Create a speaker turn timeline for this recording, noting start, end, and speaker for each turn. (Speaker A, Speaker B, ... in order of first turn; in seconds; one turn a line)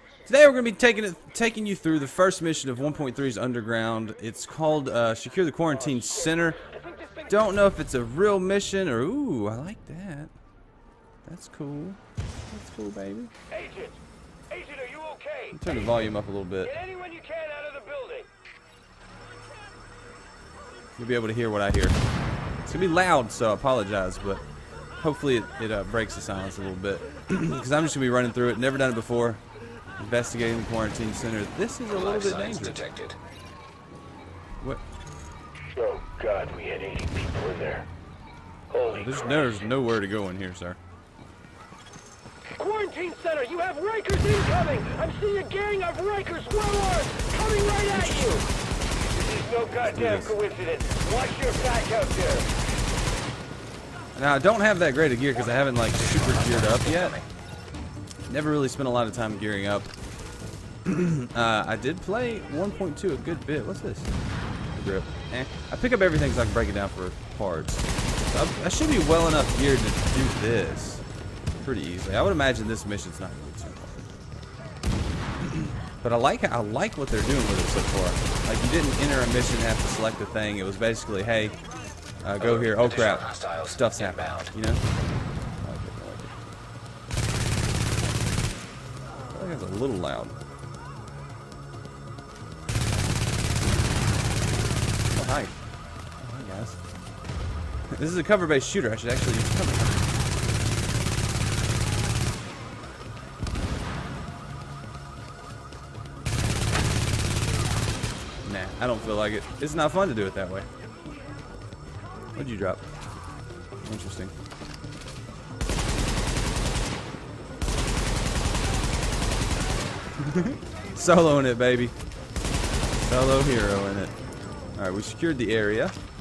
Speaker A: 0.2-6.6
Speaker B: 5.7-7.5
Speaker A: 7.3-10.3
Speaker A: 11.2-13.3
Speaker B: 13.5-18.3
Speaker A: 15.5-16.7
Speaker A: 20.9-22.0
Speaker A: 22.6-24.4
Speaker A: 25.0-29.4
Speaker A: 30.0-32.8
Speaker C: 31.9-33.2
Speaker B: 35.7-37.9
Speaker B: 38.7-39.7
Speaker A: 38.9-40.8
Speaker B: 42.6-48.4
Speaker A: 47.9-48.4
Speaker B: 49.1-52.5
Speaker A: 49.8-50.4
Speaker A: 54.1-57.2
Speaker C: 55.3-57.2
Speaker A: 58.3-59.9
Speaker A: 60.8-64.1
Speaker A: 64.7-71.0
Speaker A: 71.6-74.1
Speaker A: 75.4-81.6
Speaker A: 82.2-84.8
Speaker C: 82.4-84.5
Speaker A: 85.6-86.3
Speaker A: 89.3-90.4
Speaker A: 95.1-95.5
Speaker A: 96.2-96.8
Speaker A: 97.9-100.1
Speaker A: 108.4-110.7
Speaker A: 112.3-112.9
Speaker A: 113.8-114.3
Speaker A: 120.2-122.0
Speaker A: 122.9-124.1
Speaker A: 124.7-126.0